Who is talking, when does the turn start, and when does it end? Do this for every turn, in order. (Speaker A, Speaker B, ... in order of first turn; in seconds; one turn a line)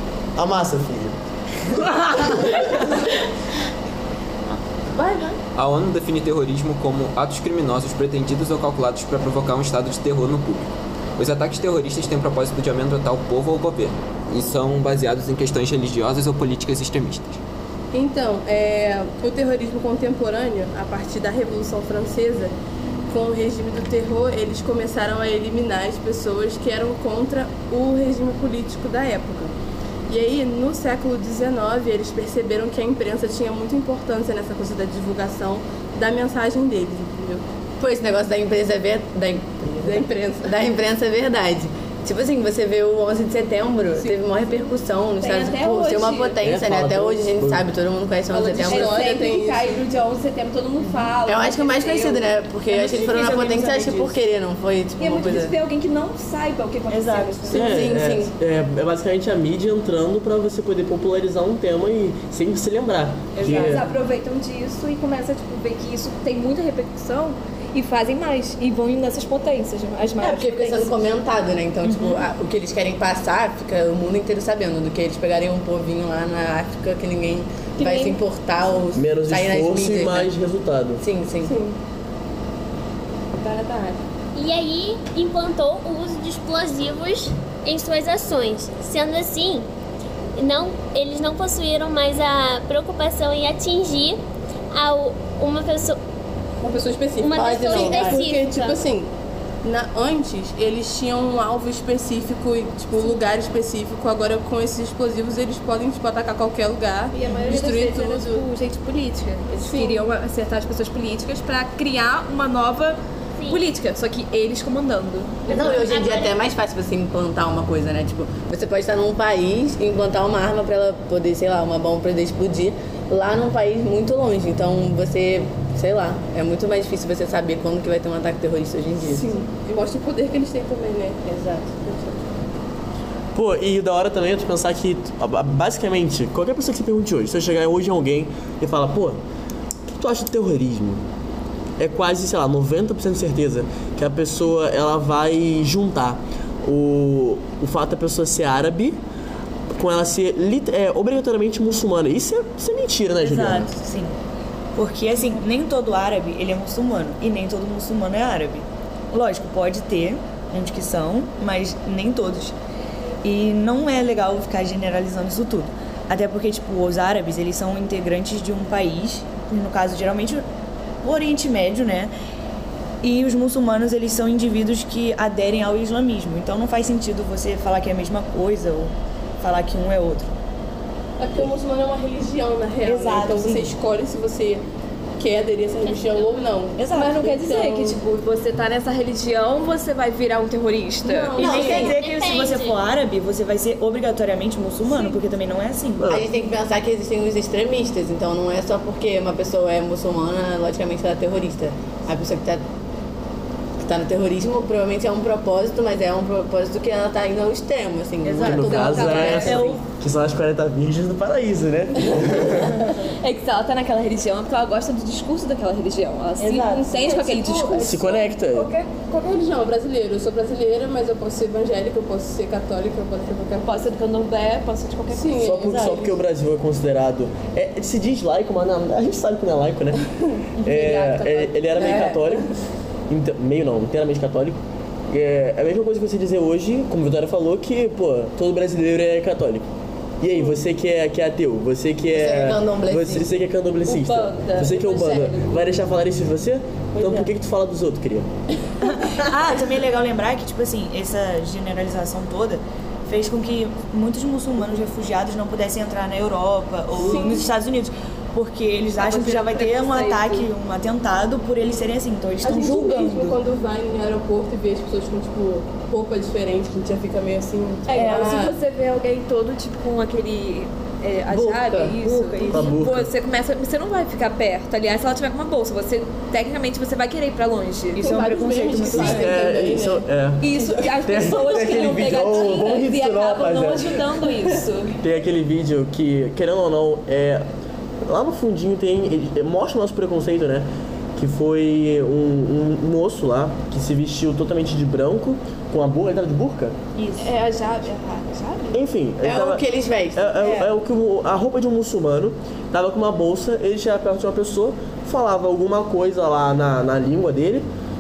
Speaker A: 0.4-1.2
Speaker A: 1.7-2.7
Speaker B: 5.0-5.4
Speaker C: 5.5-17.4
Speaker B: 17.9-22.5
Speaker B: 23.1-29.5
Speaker B: 30.1-37.4
Speaker D: 37.8-49.1
Speaker B: 39.8-40.5
Speaker E: 45.2-46.4
Speaker A: 46.4-47.7
Speaker B: 48.3-49.8
Speaker E: 48.6-52.3
Speaker F: 50.8-51.1
Speaker D: 51.2-55.5
Speaker F: 52.7-54.2
Speaker E: 55.0-58.0
Speaker F: 56.9-57.6
Speaker D: 57.5-58.3
Speaker A: 57.5-63.9
Speaker F: 63.4-63.9
Speaker E: 63.4-71.0
Speaker D: 70.2-80.3
Speaker F: 71.8-72.2
Speaker E: 77.8-78.2
Speaker A: 78.9-81.0
Speaker D: 81.0-81.6
Speaker B: 81.5-81.8
Speaker B: 83.4-84.0
Speaker G: 84.3-89.7
Speaker G: 90.4-94.2
Speaker G: 94.7-96.0
Speaker B: 96.6-99.1
Speaker G: 97.2-98.8
Speaker D: 97.3-98.3
Speaker B: 99.6-108.4
Speaker E: 107.1-113.0
Speaker B: 109.6-110.0
Speaker E: 113.5-115.5
Speaker D: 115.5-129.4
Speaker G: 115.5-116.4
Speaker B: 129.1-131.2
Speaker F: 131.3-131.6
Speaker B: 131.8-132.2
Speaker A: 133.3-139.2
Speaker A: 139.9-141.0
Speaker A: 141.8-149.0
Speaker A: 149.7-153.7
Speaker F: 153.2-154.2
Speaker F: 154.8-162.5
Speaker F: 163.2-170.5
Speaker F: 171.0-172.1
Speaker F: 173.0-180.3
Speaker B: 181.2-184.6
Speaker F: 182.8-183.8
Speaker B: 185.2-188.0
Speaker F: 186.8-187.2
Speaker E: 186.9-191.4
Speaker B: 191.0-191.8
Speaker F: 191.3-196.2
Speaker G: 191.4-192.8
Speaker D: 191.4-191.9
Speaker A: 196.0-196.3
Speaker D: 196.1-202.6
Speaker D: 203.8-209.8
Speaker F: 208.2-209.8
Speaker A: 208.4-212.8
Speaker E: 208.6-209.6
Speaker E: 212.3-218.1
Speaker F: 216.4-217.5
Speaker B: 217.1-223.7
Speaker A: 217.8-218.7
Speaker E: 223.6-225.4
Speaker B: 225.1-226.2
Speaker A: 225.4-232.5
Speaker F: 225.6-226.0
Speaker B: 230.9-232.3
Speaker E: 231.4-231.9
Speaker A: 233.1-234.6
Speaker A: 235.1-239.7
Speaker A: 240.2-248.3
Speaker D: 242.1-243.4
Speaker E: 243.9-245.7
Speaker E: 247.0-247.3
Speaker F: 248.8-263.4
Speaker B: 257.0-257.4
Speaker E: 259.0-260.5
Speaker B: 262.4-268.5
Speaker E: 267.9-278.1
Speaker D: 268.0-268.5
Speaker D: 271.3-272.0
Speaker F: 272.0-272.8
Speaker A: 272.5-273.1
Speaker F: 277.9-279.5
Speaker B: 278.0-281.6
Speaker E: 278.9-279.3
Speaker A: 278.9-280.5
Speaker E: 280.4-285.0
Speaker A: 281.0-283.9
Speaker A: 285.0-287.4
Speaker A: 288.1-296.8
Speaker F: 297.0-297.3
Speaker E: 297.2-298.8
Speaker A: 298.7-307.7
Speaker D: 299.2-300.7